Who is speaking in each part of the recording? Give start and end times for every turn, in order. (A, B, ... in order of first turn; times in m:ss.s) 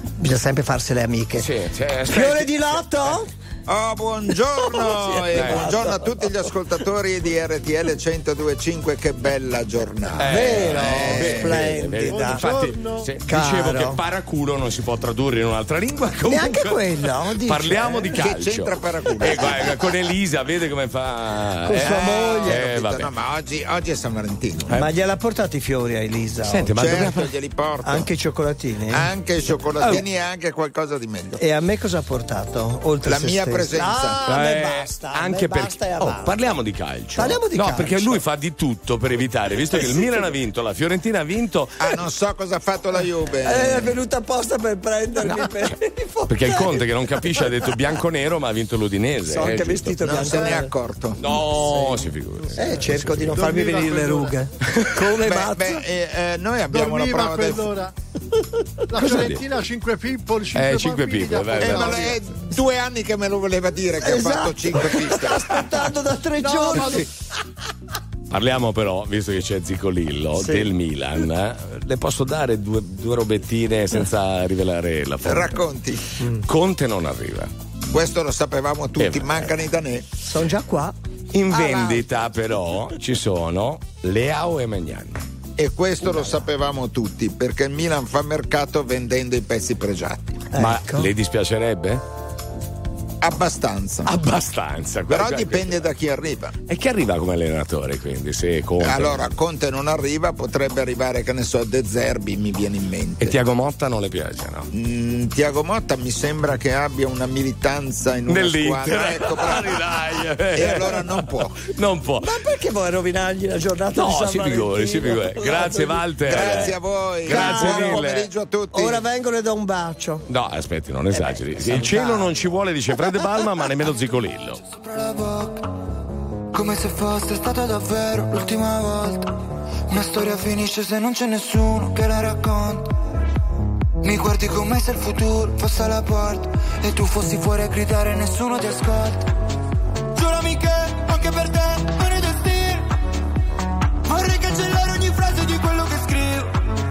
0:00.2-0:01.5 A
0:01.4-0:02.8 B
0:02.1-0:03.3 A
0:03.7-0:11.6 C
0:04.6-0:06.2 A
0:05.3-0:05.8 B
0:10.2-0:23.1 B
0:10.2-0:12.7 A
0:12.1-0:13.1 D
0:13.3-0:14.0 A
0:16.3-0:18.2 A
0:18.2-0:19.9 C
0:21.6-0:22.7 A
0:21.8-0:24.7 C
0:24.8-0:26.8 A
0:26.4-0:27.3 B
0:26.8-0:28.1 C
0:27.8-0:29.1 A
0:28.9-0:31.4 C
0:31.4-0:36.3 A
0:33.0-0:34.2 C
0:34.2-0:41.8 B
0:37.2-0:38.2 A
0:39.7-0:40.3 A
0:41.8-0:44.0 C
0:43.4-0:47.7 A
0:45.2-0:45.7 B
0:46.3-0:50.3 B
0:49.2-0:50.7 A
0:50.0-0:51.2 C
0:51.2-0:53.8 B
0:51.7-0:55.8 A
0:53.4-0:54.3 D
0:55.1-0:57.7 C
0:56.7-0:57.9 D
0:58.9-1:02.2 D
0:59.0-0:59.5 B
1:00.5-1:02.4 B
1:01.6-1:05.4 C
1:04.0-1:07.1 A
1:06.4-1:07.1 D
1:06.6-1:07.1 B
1:08.3-1:15.6 B
1:10.4-1:10.7 A
1:15.2-1:16.0 C
1:16.2-1:16.4 A
1:16.5-1:17.5 B
1:17.9-1:20.0 C
1:19.0-1:19.5 B
1:20.2-1:21.0 A
1:21.3-1:25.2 B
1:21.5-1:22.0 A
1:25.6-1:30.4 C
1:30.5-1:31.1 A
1:30.6-1:32.0 B
1:33.2-1:34.1 C
1:34.1-1:35.9 B
1:35.1-1:36.5 C
1:36.7-1:39.3 B
1:38.8-1:43.4 C
1:43.2-1:44.7 B
1:44.7-1:51.6 C
1:48.3-1:52.3 B
1:52.2-1:56.7 A
1:54.0-1:58.3 B
1:56.2-1:59.1 C
1:57.3-1:58.0 A
1:58.7-2:00.2 A
2:00.3-2:04.6 B
2:01.1-2:02.3 A
2:05.1-2:05.5 E
2:06.6-2:09.2 E
2:09.9-2:12.8 E
2:14.0-2:19.2 E
2:20.2-2:22.8 E
2:24.1-2:26.5 E